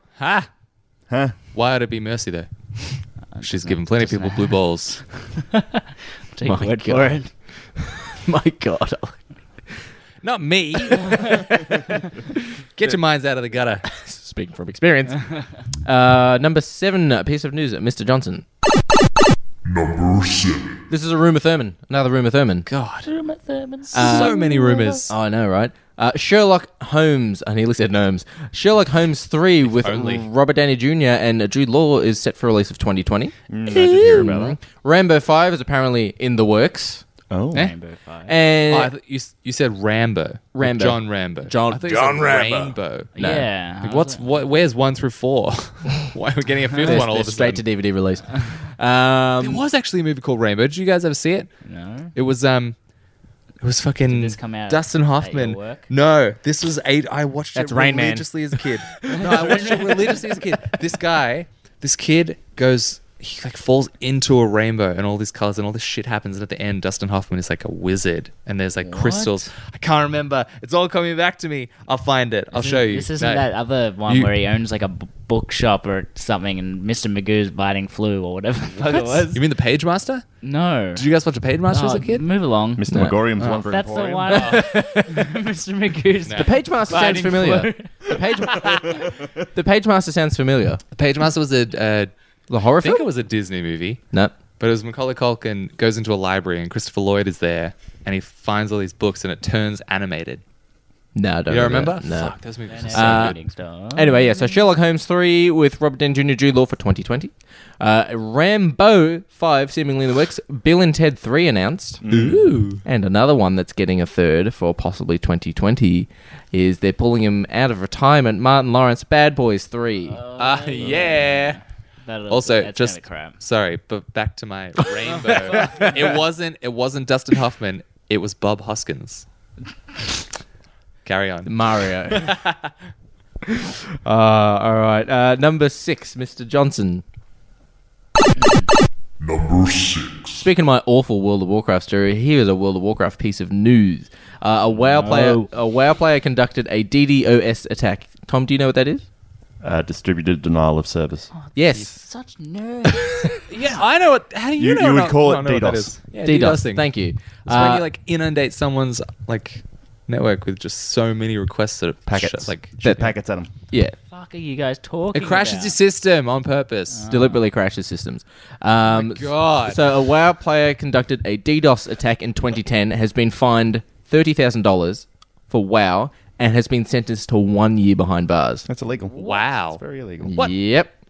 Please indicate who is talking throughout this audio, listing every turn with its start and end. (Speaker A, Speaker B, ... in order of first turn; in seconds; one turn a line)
Speaker A: 0.2-0.5
Speaker B: 1.1-1.3
Speaker A: 1.5-5.0
Speaker C: 3.3-5.8
Speaker C: 6.3-7.3
Speaker D: 6.5-9.3
Speaker A: 10.2-11.4
Speaker D: 11.1-12.0
Speaker A: 12.8-13.9
Speaker D: 13.9-18.4
Speaker E: 19.6-20.8
Speaker D: 20.9-22.7
Speaker A: 22.7-23.1
Speaker C: 23.1-25.0
Speaker D: 23.9-24.4
Speaker A: 23.9-25.1
Speaker D: 25.1-37.0
Speaker A: 29.7-30.3
Speaker B: 33.5-34.6
Speaker B: 37.3-37.7
Speaker C: 37.5-38.4
Speaker D: 38.3-38.9
Speaker A: 38.7-43.1
Speaker D: 40.5-43.5
Speaker C: 43.1-44.3
Speaker A: 43.8-47.6
Speaker D: 46.8-49.6
Speaker A: 49.4-52.8
Speaker C: 51.6-52.1
Speaker A: 53.6-73.5
Speaker C: 54.1-55.9
Speaker D: 57.5-59.3
Speaker C: 59.1-60.2
Speaker C: 68.8-69.5
Speaker C: 72.5-79.4
Speaker A: 74.1-74.3
Speaker A: 78.8-80.3
Speaker C: 80.4-81.0
Speaker A: 81.0-82.2
Speaker C: 81.7-82.8
Speaker B: 82.8-84.5
Speaker D: 82.9-83.2
Speaker A: 83.4-83.7
Speaker C: 83.5-88.7
Speaker A: 84.3-84.7
Speaker D: 84.5-85.1
Speaker D: 86.3-90.8
Speaker A: 90.9-92.1
Speaker D: 92.5-93.1
Speaker A: 92.8-94.0
Speaker A: 94.6-100.4
Speaker D: 101.2-102.4
Speaker A: 101.5-103.4
Speaker C: 102.7-104.2
Speaker D: 102.9-112.0
Speaker B: 112.0-112.7
Speaker A: 112.1-112.8
Speaker D: 112.8-120.2
Speaker C: 120.1-123.4
Speaker A: 120.4-121.6
Speaker A: 122.3-129.3
Speaker D: 125.5-125.8
Speaker A: 131.1-132.6
Speaker D: 131.5-132.4
Speaker D: 133.5-137.0
Speaker E: 139.2-140.4
Speaker D: 140.3-149.1
Speaker C: 144.8-145.5
Speaker B: 149.6-151.3
Speaker C: 151.3-153.4
Speaker D: 151.6-152.1
Speaker D: 153.0-153.3
Speaker A: 153.5-156.9
Speaker B: 154.6-155.9
Speaker D: 156.2-157.9
Speaker A: 157.4-162.9
Speaker B: 162.1-163.5
Speaker D: 162.8-163.2
Speaker D: 163.7-164.0
Speaker C: 164.1-165.8
Speaker A: 165.1-167.0
Speaker C: 166.9-167.4
Speaker D: 167.1-178.7
Speaker A: 168.9-169.9
Speaker B: 178.7-180.4
Speaker A: 179.1-180.5
Speaker D: 180.2-180.9